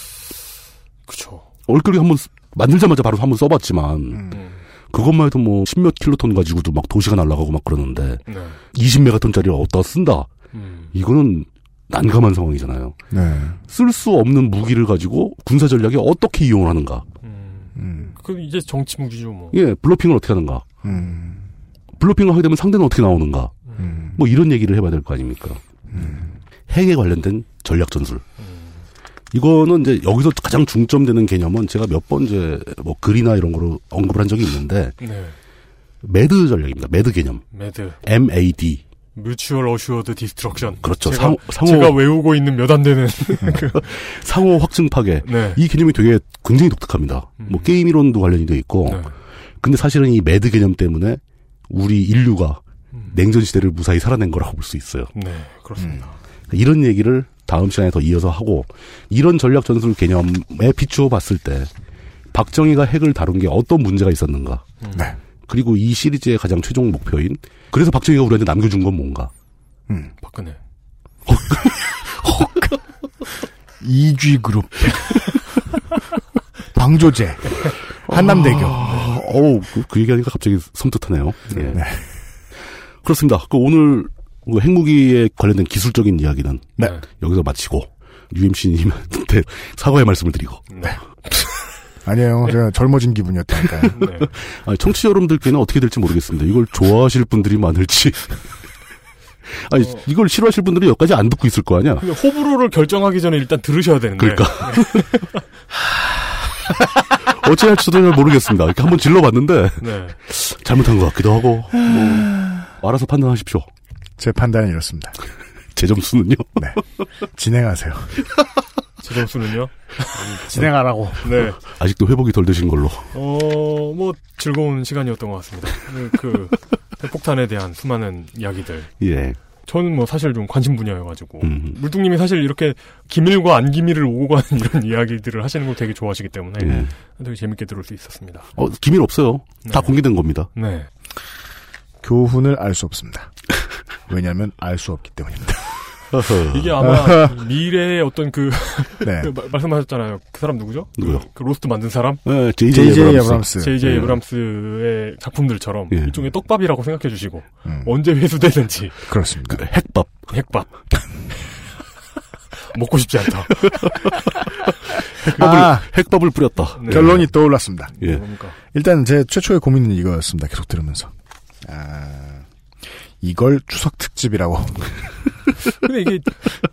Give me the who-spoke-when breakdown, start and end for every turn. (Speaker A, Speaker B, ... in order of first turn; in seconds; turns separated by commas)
Speaker A: 1.1-1.5, Speaker B: 1.7-4.3, Speaker A: 4.3-4.6, Speaker B: 4.9-8.2, Speaker A: 8.3-8.6, Speaker B: 8.7-10.3, Speaker A: 10.5-10.9, Speaker B: 10.9-12.9, Speaker C: 13.1-13.6, Speaker B: 13.7-17.1, Speaker A: 17.2-19.6, Speaker C: 17.8-18.1, Speaker B: 19.5-20.6, Speaker C: 20.8-21.4, Speaker B: 22.0-23.5, Speaker C: 23.8-24.2, Speaker B: 24.1-25.6, Speaker C: 25.9-26.3, Speaker B: 26.7-28.2, Speaker A: 28.4-28.8, Speaker B: 29.3-35.0, Speaker A: 35.0-35.4, Speaker B: 36.0-37.4, Speaker A: 37.5-38.0, Speaker B: 38.0-38.8, Speaker A: 39.1-43.9, Speaker B: 40.8-42.1, Speaker B: 43.5-49.0, Speaker A: 45.2-45.6, Speaker A: 47.4-47.7, Speaker A: 48.8-49.1, Speaker B: 49.6-52.6, Speaker A: 52.9-53.2, Speaker B: 53.1-55.1, Speaker A: 55.1-56.2, Speaker C: 55.8-56.0, Speaker B: 56.5-61.7, Speaker B: 62.3-64.7, Speaker A: 64.8-65.1, Speaker B: 65.5-69.3, Speaker A: 70.2-70.6, Speaker B: 71.3-71.8, Speaker C: 72.0-72.8, Speaker C: 73.8-75.3, Speaker C: 76.7-78.9, Speaker B: 78.1-81.8, Speaker A: 78.8-79.1, Speaker A: 81.5-81.8, Speaker C: 81.7-82.0, Speaker B: 83.0-90.7, Speaker A: 86.8-87.0, Speaker A: 90.7-91.5, Speaker C: 92.0-93.9, Speaker A: 93.9-94.3, Speaker B: 94.0-98.4, Speaker B: 99.7-102.0, Speaker A: 99.8-100.0, Speaker A: 102.0-105.4, Speaker B: 104.2-105.1, Speaker B: 107.3-113.7, Speaker A: 109.8-110.2, Speaker C: 112.0-112.5, Speaker C: 114.2-115.2, Speaker B: 115.7-116.6, Speaker C: 117.3-118.2, Speaker A: 119.0-121.6, Speaker C: 120.5-121.4, Speaker B: 121.6-123.1, Speaker A: 123.1-128.9, Speaker B: 129.0-129.4, Speaker A: 129.6-138.5, Speaker B: 131.4-131.8, Speaker B: 136.6-136.9, Speaker B: 138.6-140.5, Speaker A: 139.6-140.0, Speaker A: 140.5-140.9, Speaker C: 142.0-143.3, Speaker C: 144.1-145.8, Speaker B: 146.1-146.8, Speaker A: 146.5-152.2, Speaker C: 146.8-147.3, Speaker C: 149.0-149.3, Speaker B: 151.0-151.2, Speaker B: 152.2-154.2, Speaker C: 152.7-153.8, Speaker A: 153.6-159.0, Speaker B: 155.9-156.2, Speaker C: 157.6-157.9, Speaker C: 159.1-159.6, Speaker B: 159.5-160.3, Speaker A: 160.3-160.7, Speaker A: 162.7-164.4, Speaker A: 165.2-165.7, Speaker B: 165.3-167.3, Speaker C: 165.3-165.9, Speaker A: 166.7-167.2, Speaker C: 166.9-167.9, Speaker A: 167.9-168.6, Speaker C: 168.7-171.1, Speaker C: 171.6-172.4, Speaker C: 173.2-174.9, Speaker A: 175.8-176.4